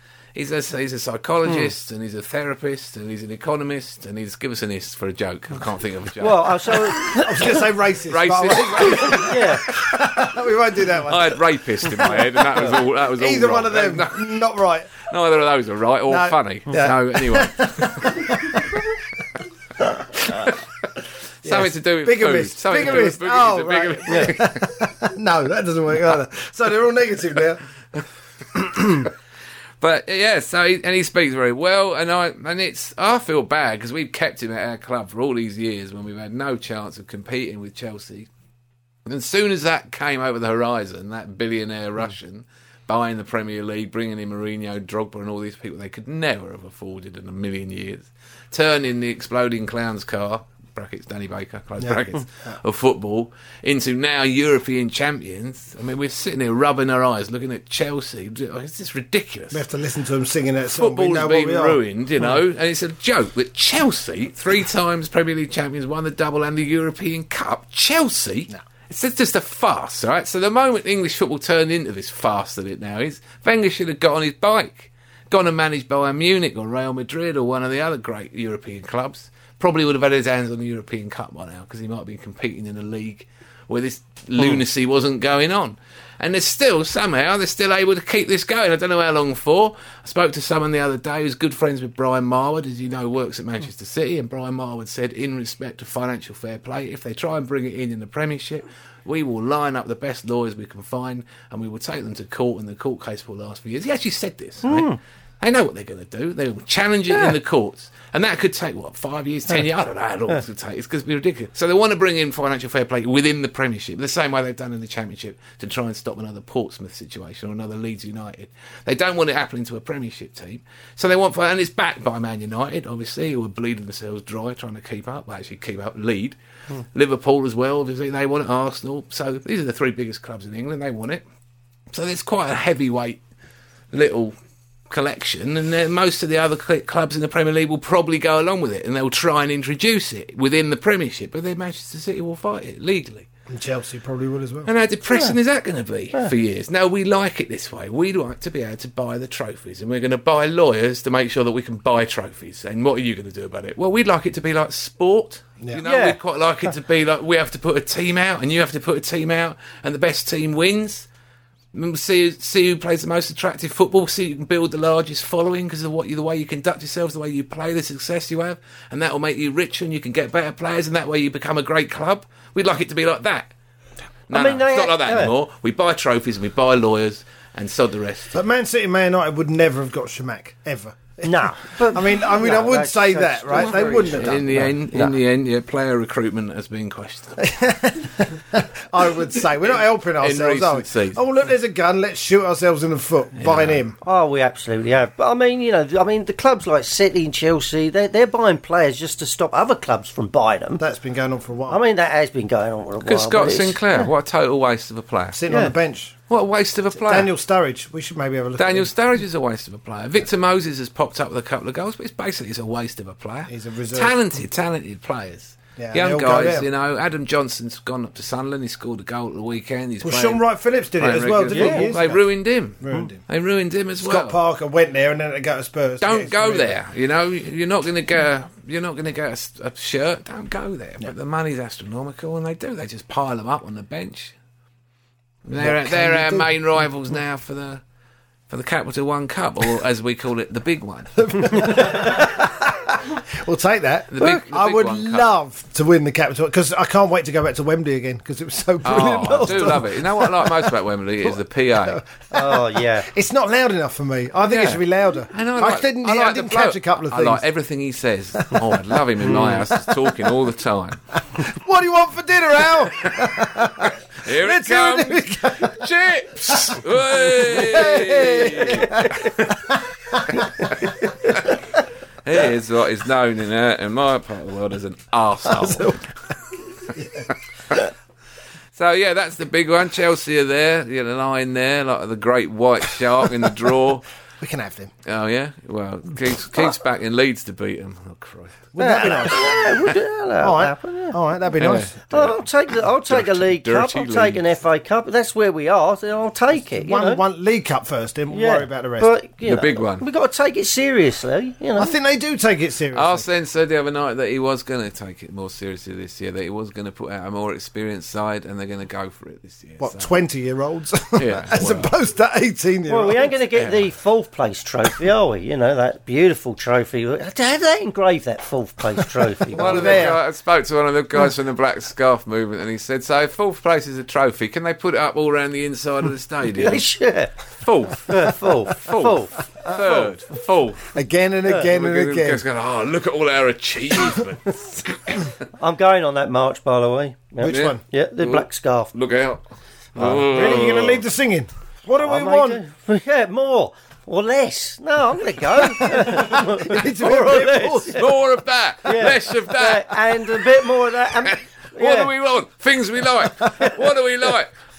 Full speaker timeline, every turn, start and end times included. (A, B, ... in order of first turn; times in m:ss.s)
0:00.4-0:07.1 A
0:06.2-0:07.4 B
0:07.1-0:14.9 C
0:08.1-0:10.0 A
0:09.2-0:09.6 B
0:11.0-0:14.4 A
0:15.0-0:18.4 A
0:16.1-0:18.8 C
0:20.2-0:20.6 A
0:21.4-0:24.6 A
0:21.4-0:27.6 C
0:28.5-0:29.1 C
0:29.8-0:38.3 A
0:39.1-0:59.6 A
0:59.5-1:01.8 C
1:00.7-2:11.2 A
1:44.6-1:45.0 B
2:11.9-2:13.2 A
2:13.9-2:14.4 A
2:14.9-2:23.3 A
2:23.5-2:24.7 C
2:24.6-2:41.1 A
2:35.8-2:36.2 B
2:41.7-2:53.5 A
2:54.3-2:58.4 A
2:54.3-2:55.3 B
2:58.3-3:04.7 C
3:01.2-3:05.1 B
3:03.6-3:07.5 A
3:07.4-3:14.0 C
3:09.6-3:11.2 A
3:13.4-3:13.8 A
3:14.0-3:20.8 B
3:20.8-3:21.8 C
3:21.7-3:24.1 B
3:23.0-3:25.4 A
3:25.3-3:26.2 C
3:26.3-3:27.3 A
3:27.0-3:28.9 C
3:28.6-3:40.4 A
3:33.5-3:34.2 C
3:35.8-3:36.7 C
3:40.0-3:42.2 C
3:41.0-3:44.4 A
3:41.5-3:41.9 B
3:42.8-3:43.2 C
3:44.0-3:46.8 C
3:46.0-3:54.3 A
3:55.4-3:57.8 A
3:55.6-3:56.5 C
3:58.5-4:01.9 A
4:01.2-4:10.7 C
4:04.1-4:05.3 A
4:08.8-4:12.0 A
4:11.3-4:17.4 C
4:12.3-4:13.1 B
4:14.4-4:21.1 A
4:18.4-4:20.3 C
4:21.3-4:25.8 C
4:24.2-4:29.6 A
4:26.5-4:30.9 C
4:30.4-4:31.6 A
4:32.2-4:36.0 A
4:35.5-4:36.1 C
4:36.9-4:37.3 C
4:38.7-4:44.0 A
4:44.4-4:44.9 C
4:45.0-4:48.7 A
4:48.7-4:49.6 C
4:48.8-4:51.2 B
4:50.4-4:51.9 C
4:51.6-4:52.4 A
4:52.1-4:57.2 B
4:53.0-4:54.4 A
4:56.8-4:59.1 C
4:58.3-5:02.0 B
4:59.4-5:00.0 A
5:01.8-5:03.3 C
5:02.9-5:10.1 A
5:09.8-5:13.3 C
5:11.2-5:11.9 A
5:12.9-5:20.1 B
5:13.5-5:13.8 A
5:19.5-5:20.2 C
5:19.5-5:26.9 A
5:26.5-5:27.3 B
5:27.6-5:30.9 A
5:28.1-5:29.3 B
5:29.6-5:30.1 C
5:30.9-5:32.4 C
5:31.6-5:35.3 A
5:35.6-5:38.9 B
5:37.4-5:37.8 C
5:37.4-5:39.4 A
5:40.0-5:41.0 A
5:40.0-5:42.6 C
5:42.0-5:48.0 B
5:45.8-5:48.0 C
5:47.9-5:50.0 A
5:48.8-5:52.1 B
5:51.2-5:54.5 A